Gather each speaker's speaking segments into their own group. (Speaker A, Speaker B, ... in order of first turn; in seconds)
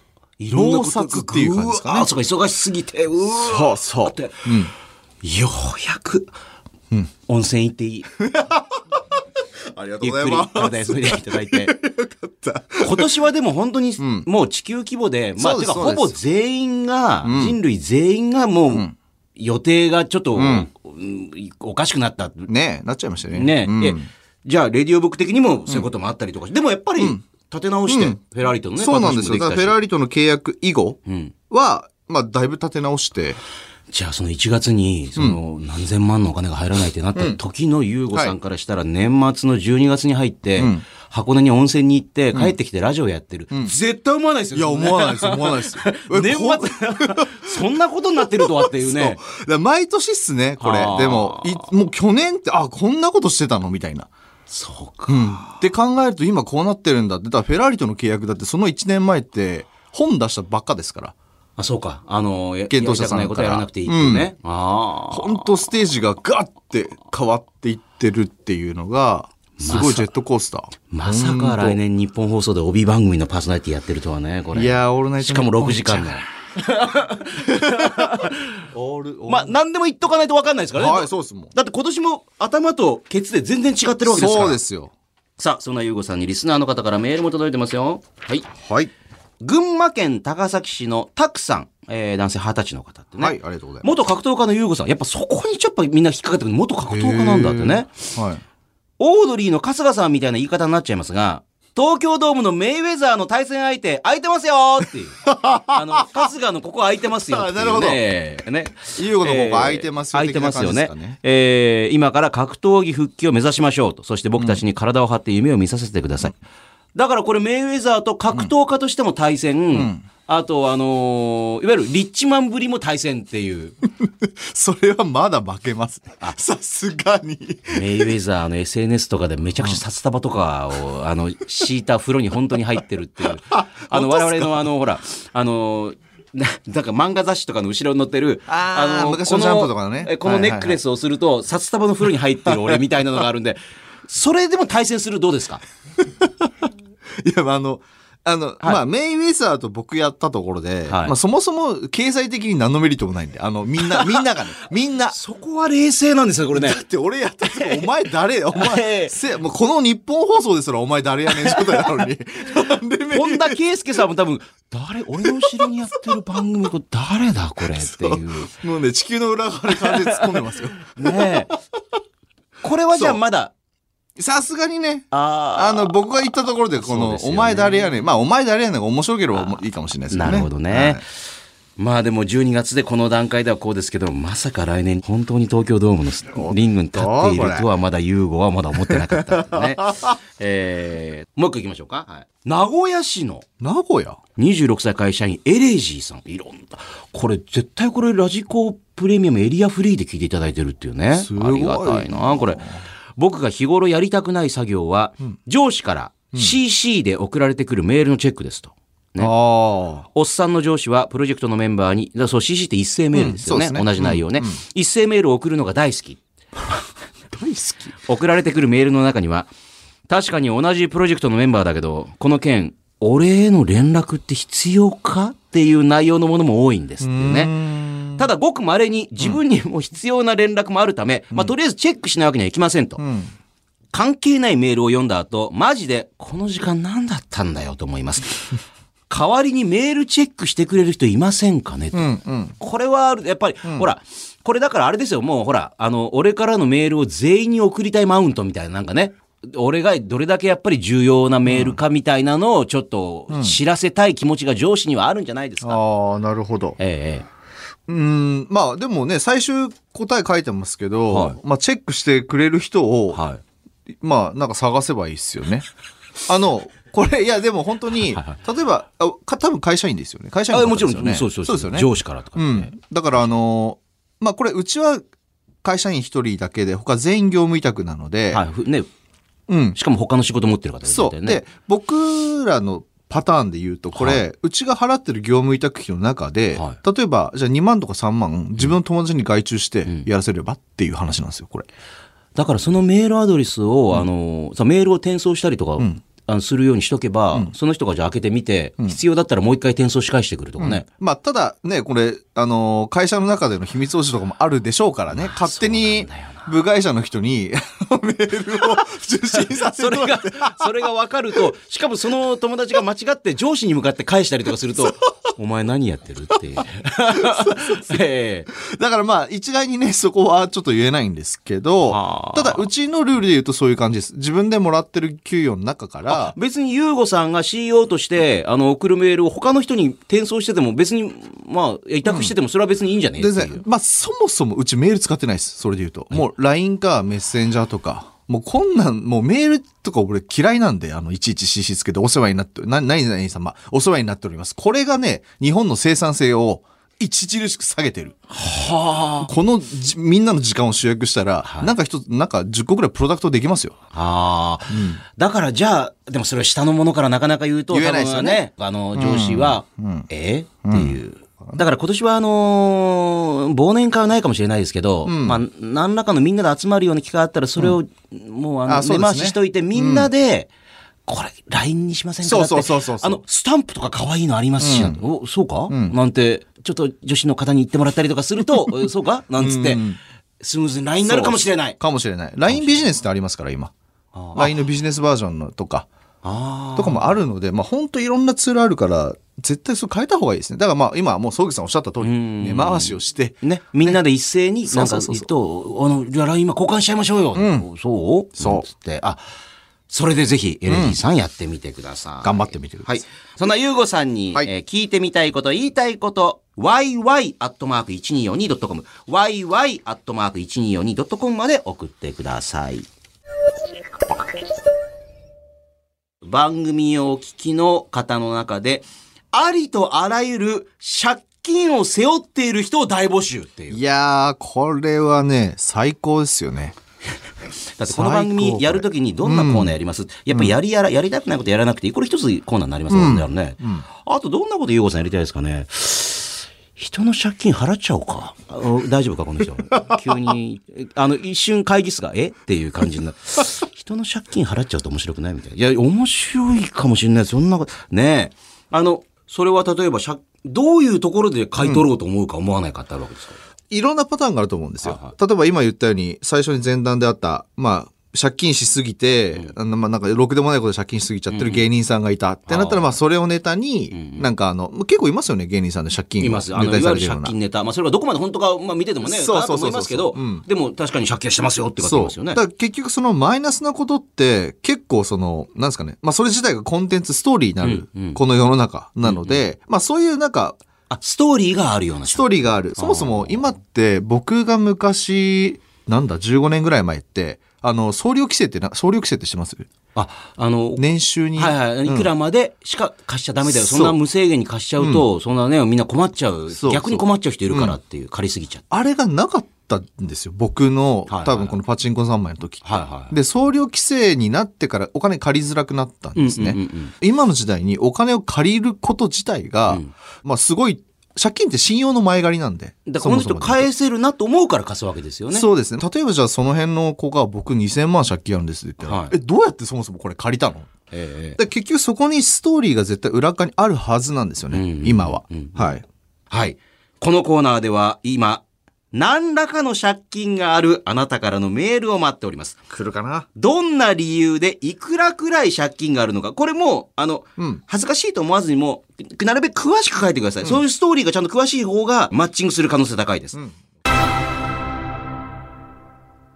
Speaker A: 0.4-4.5, 5.2-6.3, 7.3-8.1, 10.0-11.8, 12.8-22.5, 23.3-29.8, 31.1-31.3, 33.9-49.2, 50.6-51.7, 54.5-55.6, 61.6-65.6, 69.6-70.1, 70.9-78.6, 79.3-84.6, 85.4-88.5, 89.4-97.9, 99.0-105.2, 105.7-116.4, 117.0-123.8, 127.7-145.6, 150.9-151.1, 153.9-154.2, 155.1-156.8, 157.5-157.9, 158.5-159.1, 161.4-161.8, 163.1-168.5, 169.7-170.4, 170.9-171.5, 172.6-173.5, 175.1-177.9, 179.3-181.0, 181.8-193.5, 194.4-202.7, 203.2-209.3, 210.1-216.2, 218.1-219.5, 220.1-227.5, 228.2-233.0, 233.9-238.6, 239.1-255.8, 256.8-257.3, 261.1-261.4, 263.1-263.4, 268.1-268.4, 270.5-272.7, 278.3-278.9, 279.8-281.4, 283.9-284.2, 292.4-300.9, 305.3-306.5, 309.4-318.5, 321.9-322.7, 326.1-333.6, 348.3-349.3, 351.4-351.7, 353.9-370.5, 371.1-379.8, 380.4-381.8, 382.5-382.8, 384.1-384.5, 386.2-387.1, 392.0-399.2, 399.9-412.9, 416.2-423.8, 427.8-453.4, 454.8-455.1, 461.3-461.7, 462.5-462.9, 463.9-464.3, 466.2-472.4, 477.6-478.2, 479.0-479.4, 480.9-483.4, 489.9-490.9, 491.4-498.6, 501.1-501.6, 502.6-503.1, 506.1-506.9, 512.9-515.5, 518.8-519.1, 520.9-521.4, 524.5-532.6, 533.4-543.4
Speaker B: 0.5-2.1, 3.4-4.7, 8.2-9.0, 9.7-13.2, 14.0-14.3, 15.4-16.2, 17.2-17.6, 20.4-20.7, 22.5-24.1, 27.9-28.2, 28.8-31.0, 31.5-33.4, 40.6-40.8, 44.5-47.6, 48.2-54.1, 55.1-61.1, 62.7-64.3, 65.1-71.8, 74.5-76.2, 77.4-79.5, 80.8-81.5, 84.1-84.9, 88.6-88.9, 93.2-93.9, 96.9-98.4, 105.2-106.3, 107.3-108.0, 109.0-111.2, 119.7-120.0, 124.0-128.1, 133.5-134.7, 138.5-140.8, 142.5-142.8, 146.2-146.5, 147.2-155.2, 156.5-163.6, 165.2-165.7, 167.8-171.5, 174.2-181.0, 186.3-187.7, 188.9-190.2, 193.6-194.2, 201.1-202.8, 209.2-210.1, 213.1-214.6, 217.3-217.9, 227.0-228.3, 233.0-233.3, 241.9-242.6, 251.5-251.8, 253.3-253.6, 255.6-256.8, 257.9-263.2, 264.0-265.7, 266.3-275.1, 275.6-278.4, 279.5-279.8, 280.9-291.6, 300.6-310.7, 317.1-317.9, 318.5-326.3, 332.1-332.3, 333.2-348.2, 349.2-353.8, 354.7-355.0, 357.7-360.1, 360.6-361.6, 365.1-365.4, 368.7-370.1, 372.2-373.2, 374.6-375.0, 375.7-376.0, 379.4-380.0, 381.0-383.7, 384.3-385.9, 386.8-394.0, 394.7-395.3, 397.4-397.7, 398.4-398.7, 400.7-401.0, 402.2-403.0, 423.7-426.8, 427.9-429.8, 432.9-433.9, 439.8-440.0, 451.6-451.9, 453.7-467.4, 469.0-470.4, 471.8-480.6, 482.1-489.7, 490.8-492.1, 493.5-494.0, 494.8-495.1, 496.5-497.8, 498.7-513.7, 515.3-520.7, 521.4-525.8, 532.7-533.3